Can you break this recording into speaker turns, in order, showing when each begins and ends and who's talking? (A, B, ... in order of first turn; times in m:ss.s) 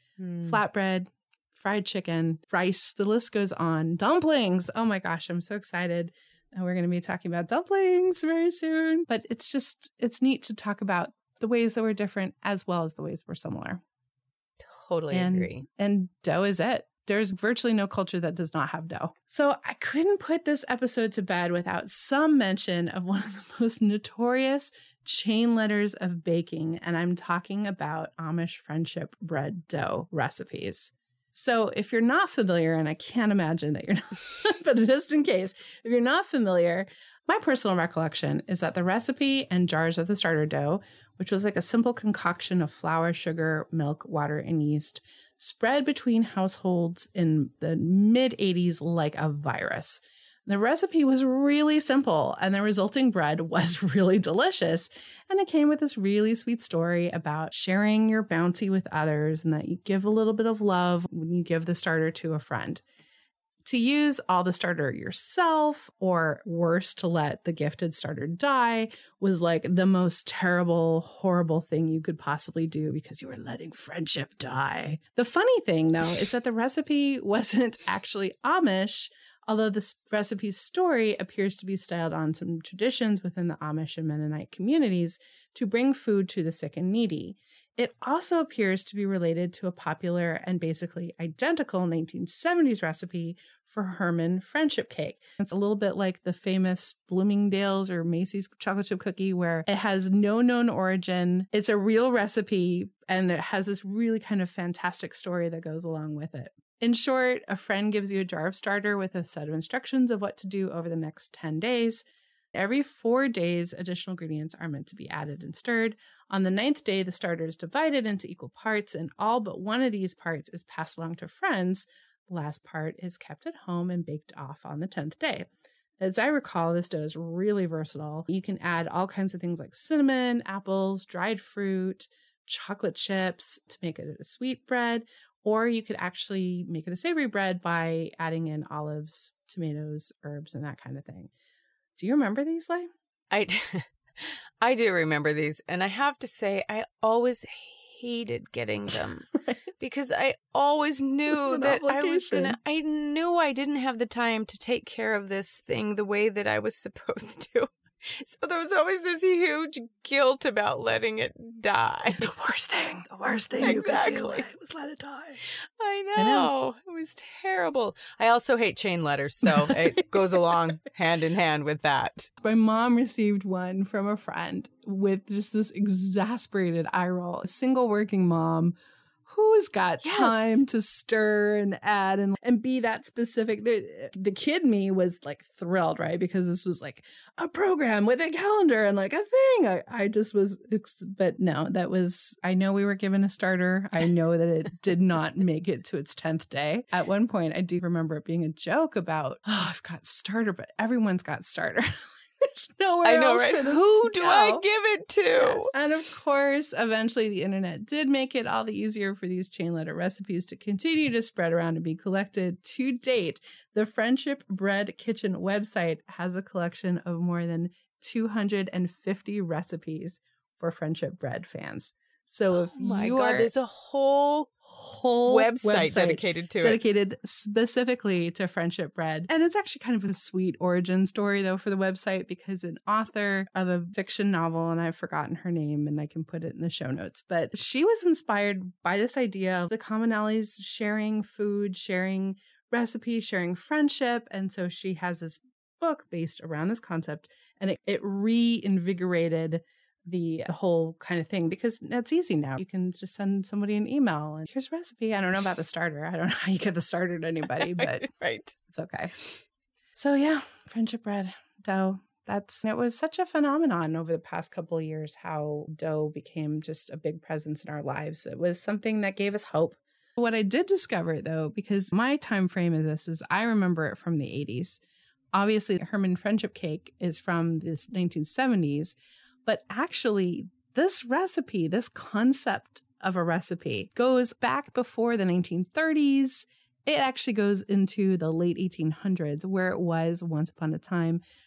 0:00.4-0:13.8 A
0:14.6-0:15.6 B
0:15.1-1:02.8 A
1:03.6-1:52.0 A
1:52.5-2:05.5 A
2:06.0-2:21.3 A
2:22.0-2:22.9 A
2:23.3-2:42.3 B
2:31.3-2:32.6 A
2:42.1-2:45.4 A
2:43.6-2:44.5 B
2:45.4-2:52.3 B
2:46.2-2:46.5 A
2:52.4-2:58.7 A
2:59.2-3:24.6 A
3:00.0-3:00.6 B
3:23.0-3:25.7 B
3:25.4-3:43.5 A
3:42.6-3:44.5 B
3:44.6-4:18.1 A
3:45.3-3:46.8 B
4:17.5-4:18.6 B
4:18.7-4:19.1 A
4:20.0-4:34.8 A
4:35.3-4:51.2 A